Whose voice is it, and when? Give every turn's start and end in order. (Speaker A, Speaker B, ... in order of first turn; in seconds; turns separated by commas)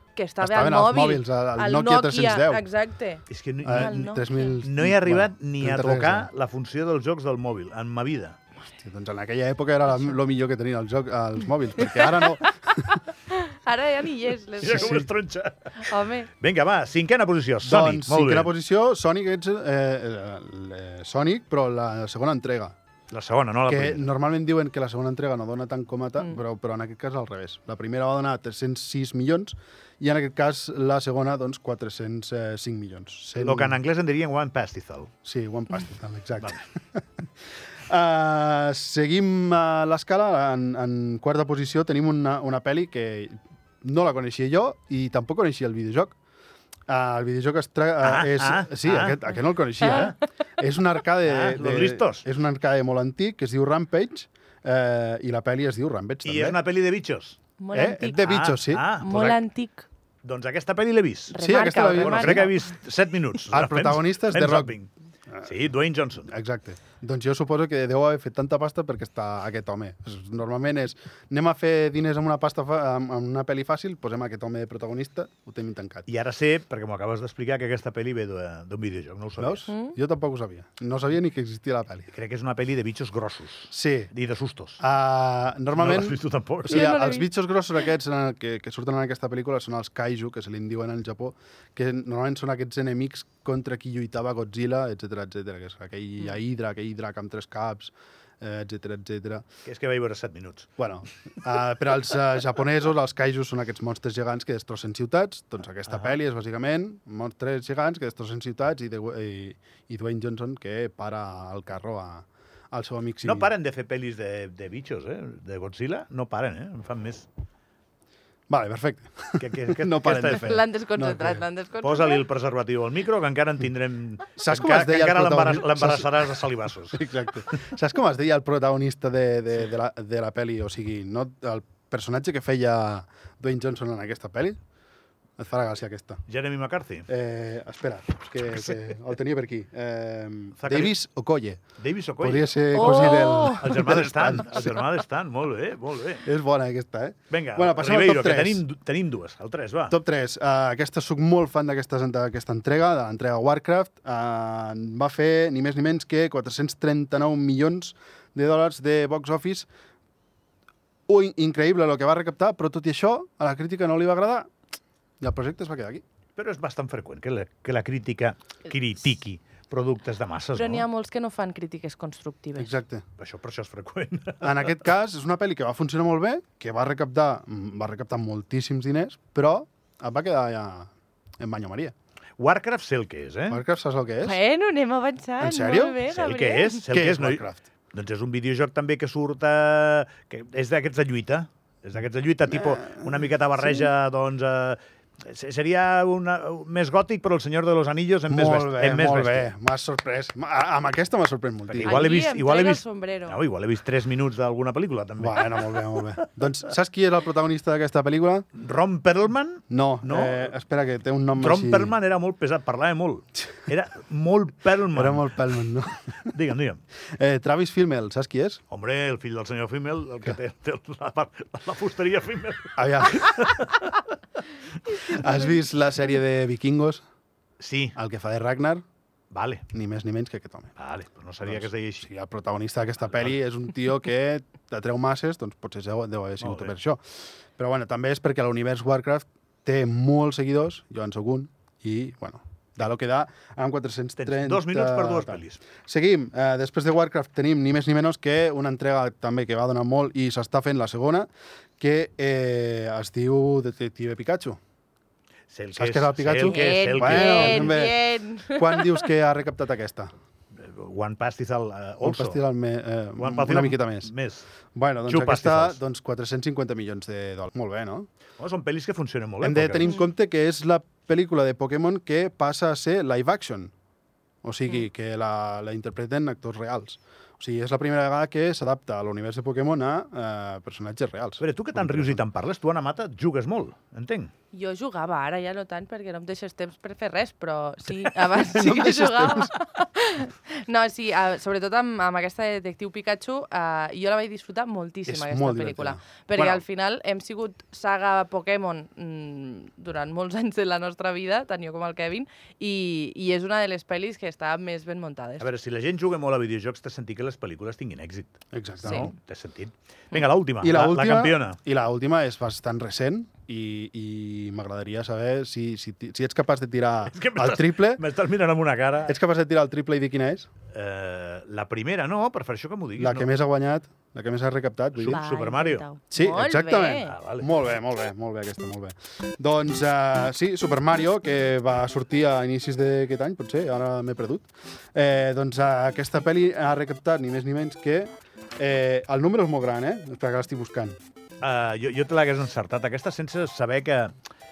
Speaker A: 0.1-4.5, Speaker B: 0.4-2.6, Speaker C: 3.3-4.0, Speaker B: 3.6-6.3, Speaker C: 4.6-8.4, Speaker B: 8.8-13.0, Speaker A: 11.8-12.5, Speaker A: 13.1-15.0, Speaker C: 14.6-18.5, Speaker B: 14.6-15.1, Speaker A: 15.8-16.3, Speaker B: 17.6-22.7, Speaker C: 23.1-24.1, Speaker B: 23.7-33.8, Speaker C: 33.4-35.1, Speaker B: 35.2-37.0, Speaker B: 37.9-46.1, Speaker B: 46.9-56.6, Speaker C: 48.0-49.2, Speaker A: 49.8-50.1, Speaker C: 49.8-50.1, Speaker C: 51.2-52.2, Speaker C: 56.2-57.4, Speaker A: 57.6-58.2, Speaker B: 57.7-58.9, Speaker C: 58.2-59.4, Speaker A: 59.0-59.8, Speaker C: 60.2-64.9, Speaker A: 61.3-62.5, Speaker B: 61.4-62.5, Speaker B: 63.5-64.7, Speaker C: 65.4-66.3, Speaker B: 66.3-76.1, Speaker C: 76.1-79.7, Speaker B: 79.4-82.1, Speaker A: 79.7-79.9, Speaker C: 82.1-84.8, Speaker B: 83.7-84.1, Speaker B: 84.8-99.4, Speaker C: 85.7-87.0, Speaker A: 86.7-87.3, Speaker C: 99.6-100.7, Speaker B: 100.8-113.5, Speaker C: 105.9-106.2, Speaker C: 113.2-117.3, Speaker B: 118.5-121.4, Speaker C: 119.4-120.6, Speaker A: 120.3-122.2, Speaker C: 121.8-127.0, Speaker B: 124.4-134.6, Speaker B: 135.4-136.2, Speaker C: 136.3-137.1, Speaker B: 137.1-141.6, Speaker C: 140.6-140.9, Speaker C: 141.8-146.2, Speaker B: 142.2-144.9, Speaker A: 142.7-143.6, Speaker B: 146.2-148.6, Speaker C: 147.3-149.9, Speaker B: 149.9-159.7, Speaker B: 161.1-164.5, Speaker B: 165.2-166.0, Speaker C: 166.4-170.8, Speaker A: 170.5-172.7, Speaker B: 172.6-173.0, Speaker C: 173.2-174.7, Speaker B: 174.4-181.9, Speaker C: 182.4-183.6, Speaker B: 183.5-184.4, Speaker A: 184.2-186.9, Speaker B: 185.4-186.0, Speaker C: 186.1-199.5, Speaker B: 186.9-187.6, Speaker B: 192.5-193.9, Speaker B: 198.3-202.0, Speaker C: 201.7-206.1, Speaker A: 201.8-203.4, Speaker B: 205.2-208.4, Speaker C: 208.5-210.5, Speaker B: 209.7-211.9, Speaker C: 211.4-215.3, Speaker B: 214.9-216.3, Speaker C: 216.3-216.8, Speaker B: 217.1-218.6, Speaker C: 218.7-223.9, Speaker B: 222.8-223.7, Speaker C: 224.9-225.2, Speaker B: 225.0-227.0, Speaker A: 225.2-225.5, Speaker C: 227.6-227.9, Speaker B: 227.9-228.8, Speaker C: 229.3-229.7, Speaker B: 229.7-230.7, Speaker C: 230.8-232.1, Speaker B: 231.4-237.0, Speaker C: 236.4-236.7, Speaker B: 237.6-251.3, Speaker C: 244.2-245.6, Speaker B: 251.8-254.6, Speaker C: 255.5-257.8, Speaker B: 255.7-260.1, Speaker A: 256.4-259.0, Speaker C: 260.6-262.4, Speaker B: 262.0-264.1, Speaker C: 263.2-264.5, Speaker B: 264.7-268.1, Speaker C: 265.0-265.8, Speaker C: 268.4-269.9, Speaker B: 269.4-273.7, Speaker B: 274.4-282.2, Speaker C: 281.4-284.3, Speaker A: 284.5-305.5, Speaker B: 288.3-289.5, Speaker B: 295.1-296.6, Speaker C: 305.4-311.6, Speaker B: 308.5-309.1, Speaker A: 308.8-309.1, Speaker B: 310.6-318.0, Speaker C: 317.1-319.1, Speaker B: 319.1-320.5, Speaker C: 320.7-323.3, Speaker B: 323.0-325.2, Speaker C: 324.9-325.9, Speaker A: 325.1-327.1, Speaker B: 326.1-341.0, Speaker C: 327.0-327.4, Speaker C: 341.4-344.1